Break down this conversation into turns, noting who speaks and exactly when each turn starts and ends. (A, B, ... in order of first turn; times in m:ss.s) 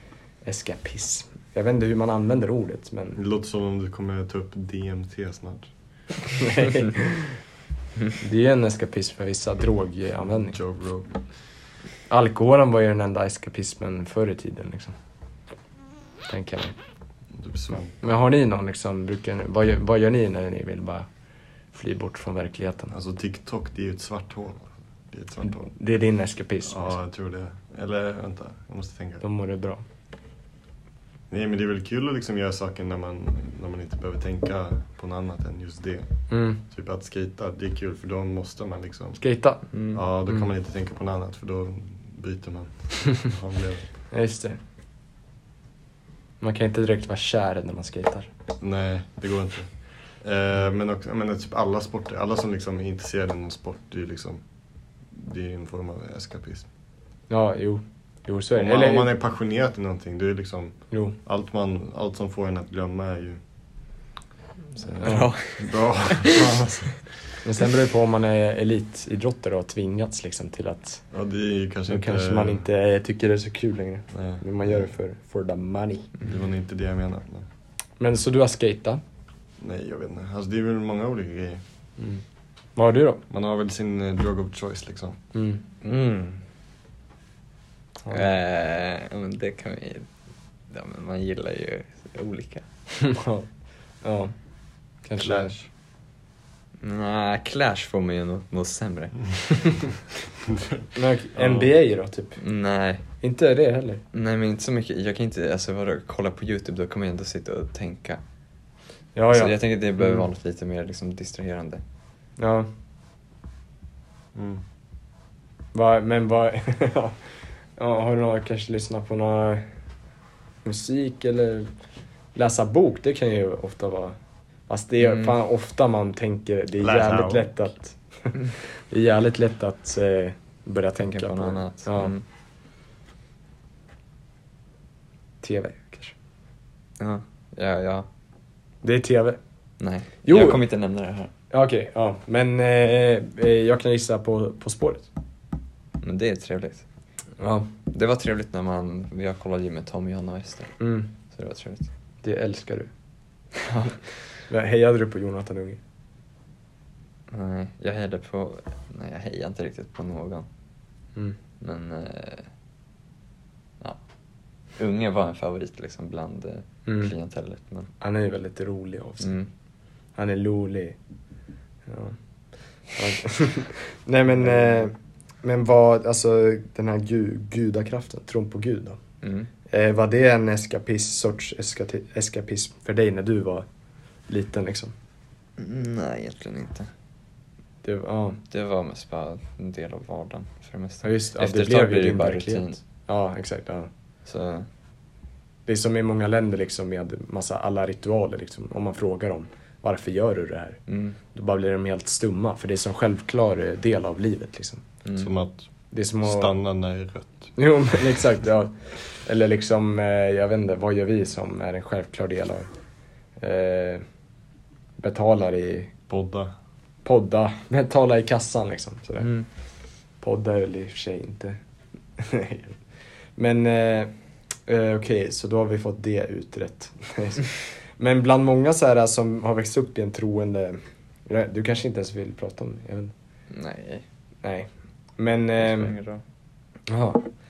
0:00.4-0:03.2 A
0:03.2-0:05.7 B
0:06.4-0:07.3 A
0:08.2-0:10.6 A
0:10.3-0:11.2 B
0:12.1-0:15.0 A
0:16.3-0:16.8 A
0:17.3-0:18.0 B
0:18.0-0:21.1 A
0:21.7-0:22.9 A
0:22.9-0:25.7 B
0:25.4-0:27.0 A
0:26.6-0:29.2 B
0:29.2-0:29.8 A
0:31.3-0:36.1 B
0:36.3-0:36.6 A
0:36.7-0:39.2 B
0:39.2-0:39.6 A
0:39.7-0:40.0 C
0:39.9-0:43.9 B
0:44.1-0:44.6 A
0:46.4-0:48.3 A
0:48.6-0:54.4 B
0:55.1-0:56.7 B
0:57.3-0:59.1 A
0:58.6-1:03.4 B
1:00.9-1:01.2 A
1:04.8-1:07.0 B
1:05.0-1:06.5 C
1:05.0-1:05.3 A
1:07.4-1:11.0 A
1:11.1-1:12.6 B
1:11.9-1:16.1 A
1:14.2-1:14.9 B
1:16.2-1:17.5 B
1:18.0-1:19.0 A
1:19.6-1:22.2 B
1:22.8-1:23.2 A
1:23.3-1:25.2 B
1:25.3-1:25.6 A
1:25.8-1:26.4 C
1:28.1-1:30.1 C
1:30.7-1:32.7 C
1:33.0-1:33.5 A
1:34.0-1:34.3 A
1:35.0-1:35.6 A
1:35.2-1:35.7 B
1:36.8-1:39.8 C
1:40.5-1:40.8 B
1:41.0-1:42.4 A
1:41.4-1:41.7 B
1:42.4-1:43.0 C
1:43.2-1:44.0 A
1:44.1-1:48.2 C
1:49.2-1:50.2 A
1:49.3-1:51.8 C
1:52.4-1:52.7 A
1:54.4-1:54.6 B
1:55.7-1:57.2 A
1:57.8-1:59.7 A
2:00.6-2:01.7 A
2:02.4-2:04.2 A
2:04.7-2:12.2 A
2:05.0-2:05.3 C
2:06.8-2:07.5 B
2:11.1-2:12.2 C
2:15.4-2:16.1 A
2:17.0-2:18.1 C
2:18.8-2:19.4 A
2:19.8-2:21.3 C
2:20.3-2:20.6 A
2:21.5-2:25.1 A
2:26.0-2:26.8 C
2:27.4-2:27.7 A
2:27.9-2:30.8 C
2:30.8-2:31.1 A
2:31.3-2:31.9 C
2:32.2-2:32.9 A
2:33.6-2:34.0 C
2:34.5-2:35.8 A
2:37.3-2:40.5 C
2:41.6-2:42.5 C
2:44.8-2:47.9 C
2:46.9-2:47.1 A
2:48.0-2:49.4 A
2:49.2-2:49.5 C
2:50.2-2:51.0 A
2:51.9-2:52.2 A
2:53.0-2:59.0 A
2:59.2-2:59.5 C
2:59.7-3:03.7 A
3:04.3-3:04.9 A
3:05.6-3:06.9 C
3:07.8-3:08.4 A
3:08.5-3:12.8 C
3:11.0-3:13.9 A
3:14.3-3:14.7 C
3:15.7-3:20.8 A
3:20.9-3:21.2 C
3:21.3-3:24.8 A
3:25.0-3:25.3 C
3:25.2-3:25.6 B
3:25.9-3:26.5 A
3:26.2-3:27.5 B
3:27.6-3:32.7 A
3:33.4-3:34.0 A
3:35.0-3:35.9 A
3:36.1-3:36.5 B
3:37.0-3:39.4 A
3:40.2-3:41.6 A
3:42.2-3:42.8 A
3:43.4-3:44.1 A
3:44.7-3:53.1 A
3:53.5-3:54.0 C
3:54.4-3:55.9 A
3:55.6-3:56.2 C
3:56.9-3:57.3 A